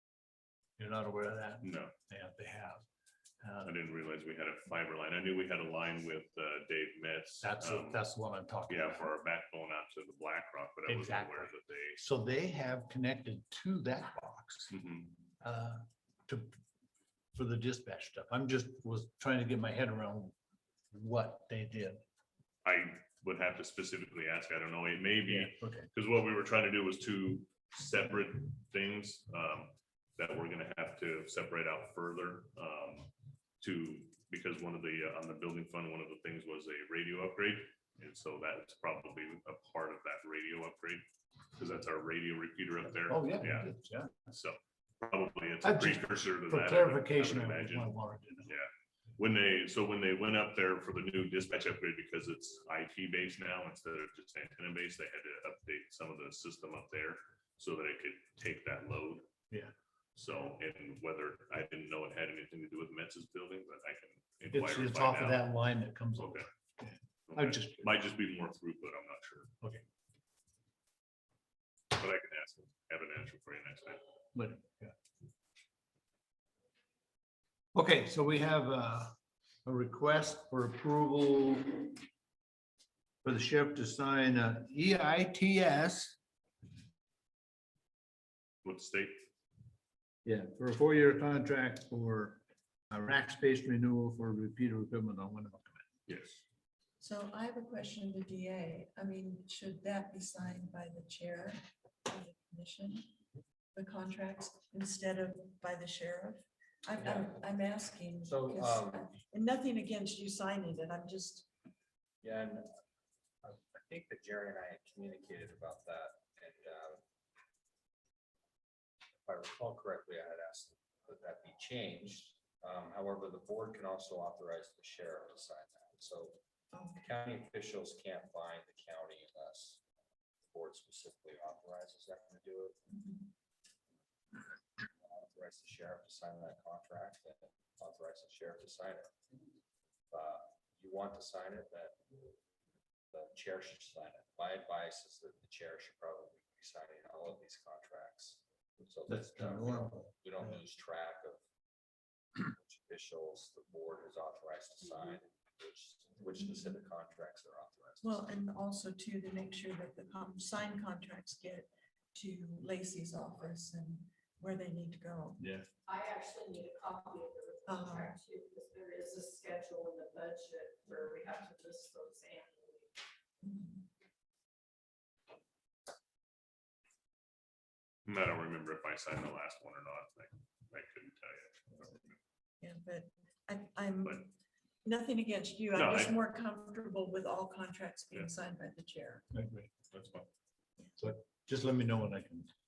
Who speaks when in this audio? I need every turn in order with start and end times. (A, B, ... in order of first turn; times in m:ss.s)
0:00.8-0:02.8 A
0:01.6-0:01.9 B
0:03.4-0:03.7 A
0:03.6-0:08.0 B
0:07.4-0:09.1 A
0:08.7-0:12.0 B
0:10.9-0:14.7 A
0:14.7-0:15.2 B
0:15.4-0:16.6 A
0:17.3-0:20.4 A
0:20.9-0:22.0 A
0:22.6-0:33.1 B
0:25.2-0:25.9 A
0:33.6-0:43.7 B
0:43.1-0:44.3 A
0:44.3-0:47.9 B
0:45.6-0:48.5 A
0:48.5-0:59.3 B
1:00.2-1:05.5 B
1:04.5-1:07.9 A
1:06.2-1:06.5 B
1:07.3-1:09.5 B
1:11.9-1:14.0 B
1:14.3-1:14.9 A
1:17.7-1:19.1 A
1:19.6-1:22.0 A
1:23.2-1:26.2 A
1:28.6-1:29.3 B
1:30.2-1:35.8 A
1:36.1-1:36.4 B
1:37.0-1:43.1 C
1:43.8-1:51.5 C
1:47.0-1:47.4 D
1:48.2-1:49.1 D
1:52.2-1:52.7 D
1:53.4-1:57.0 D
1:59.2-2:06.4 D
2:06.7-2:07.0 C
2:07.0-2:09.8 D
2:10.5-2:12.8 D
2:12.9-2:13.3 C
2:15.0-2:19.1 D
2:20.1-2:22.2 D
2:23.1-2:31.4 D
2:29.1-2:30.6 A
2:32.4-2:38.2 D
2:38.0-2:45.4 C
2:45.4-2:45.7 A
2:45.9-2:52.9 E
2:47.7-2:48.2 C
2:53.4-2:53.8 C
2:58.1-3:02.2 B
3:02.6-3:04.3 C
3:04.8-3:09.2 C
3:05.7-3:06.2 B
3:09.3-3:09.7 A
3:09.9-3:10.3 B
3:11.0-3:12.5 A